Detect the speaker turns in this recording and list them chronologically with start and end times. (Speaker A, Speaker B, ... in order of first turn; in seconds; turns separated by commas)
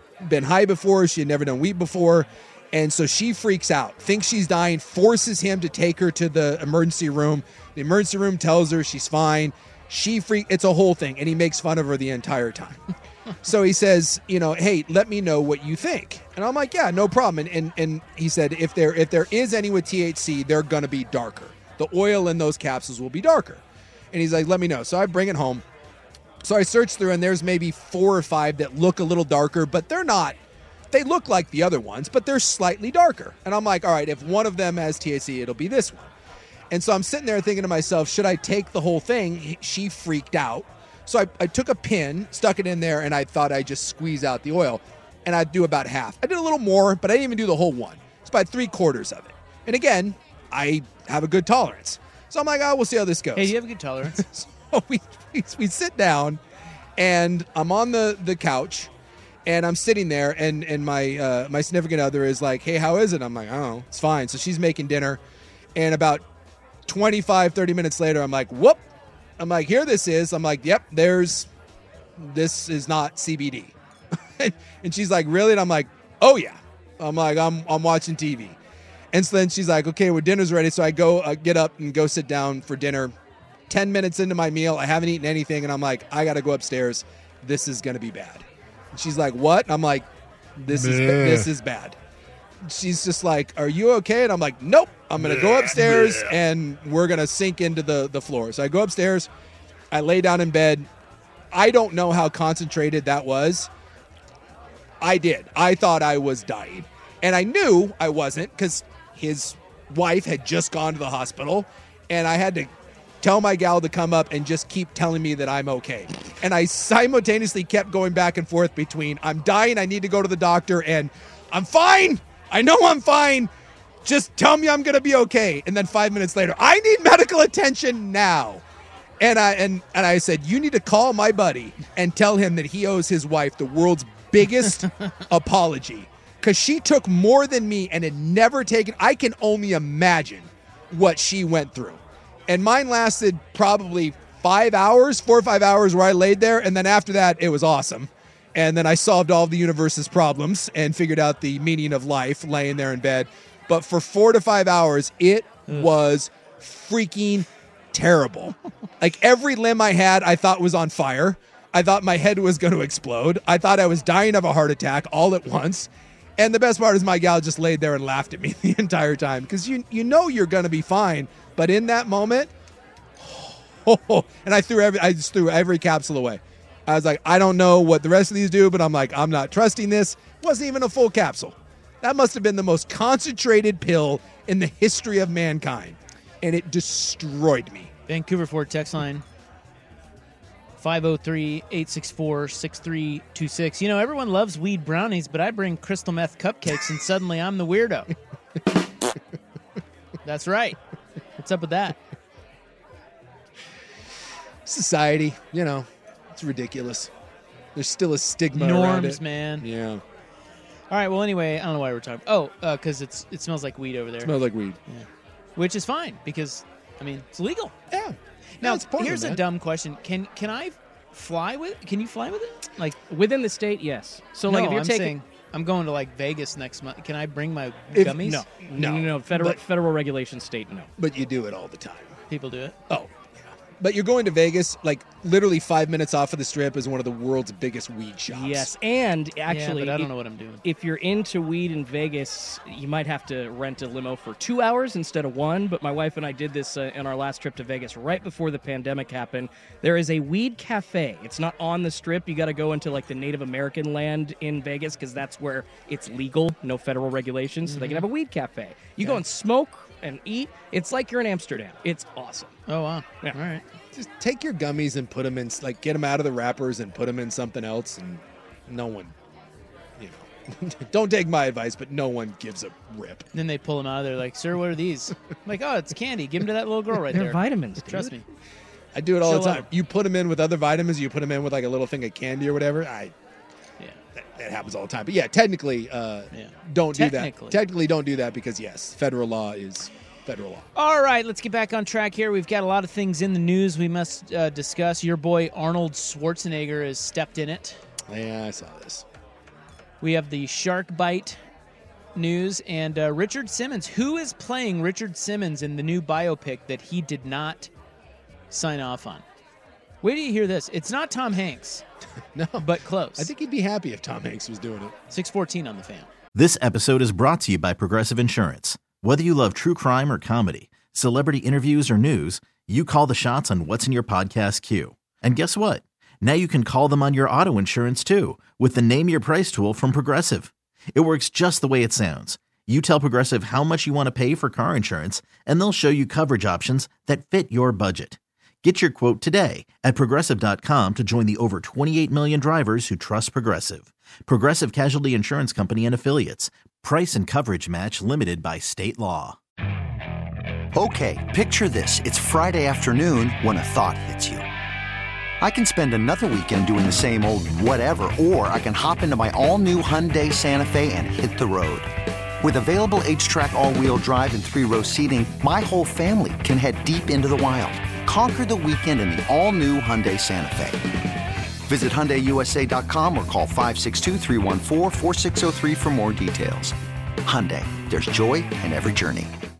Speaker A: 0.2-12.8, Speaker A: 13.4-25.6, Speaker A: 26.4-30.4, Speaker A: 30.9-36.1, Speaker A: 36.7-53.5, Speaker B: 53.3-54.2, Speaker A: 54.1-56.4, Speaker A: 57.0-58.9, Speaker A: 59.4-65.2, Speaker A: 65.7-66.2, Speaker A: 66.8-68.8, Speaker A: 69.4-71.5, Speaker A: 72.2-73.7, Speaker A: 74.4-78.6, Speaker A: 79.1-83.1, Speaker A: 83.7-92.0, Speaker A: 92.6-99.3, Speaker A: 99.9-100.9, Speaker A: 101.5-103.7, Speaker A: 105.0-123.5, Speaker A: 124.0-128.6, Speaker A: 129.2-172.5, Speaker A: 173.2-187.9, Speaker B: 188.1-189.2, Speaker B: 190.8-198.1, Speaker B: 200.2-200.8, Speaker B: 201.4-202.0, Speaker A: 204.7-207.1, Speaker A: 207.7-210.0, Speaker B: 208.5-209.7, Speaker B: 210.9-214.3, Speaker A: 214.2-214.8, Speaker B: 214.9-217.7, Speaker A: 217.9-219.4, Speaker B: 218.6-223.0, Speaker C: 223.1-225.2, Speaker B: 224.5-228.5, Speaker A: 227.9-229.6, Speaker C: 228.1-230.9, Speaker A: 231.0-232.2, Speaker B: 232.3-232.8, Speaker A: 232.9-238.7, Speaker C: 238.3-240.1, Speaker B: 239.5-240.6, Speaker C: 240.6-262.5, Speaker B: 257.6-258.1, Speaker B: 262.7-263.6, Speaker A: 263.9-269.1, Speaker A: 270.0-273.2, Speaker B: 273.3-278.2, Speaker C: 277.1-278.1, Speaker A: 278.9-283.1, Speaker B: 279.2-279.7, Speaker A: 284.2-290.7, Speaker B: 286.3-287.6, Speaker B: 290.8-297.8, Speaker A: 298.1-299.0, Speaker B: 300.0-301.4, Speaker B: 302.1-307.7, Speaker B: 308.5-309.2, Speaker B: 310.0-311.8, Speaker A: 312.3-314.9, Speaker B: 312.6-313.3, Speaker B: 315.1-316.1, Speaker D: 316.3-349.4, Speaker E: 350.7-354.4, Speaker E: 355.4-370.8, Speaker E: 371.7-379.3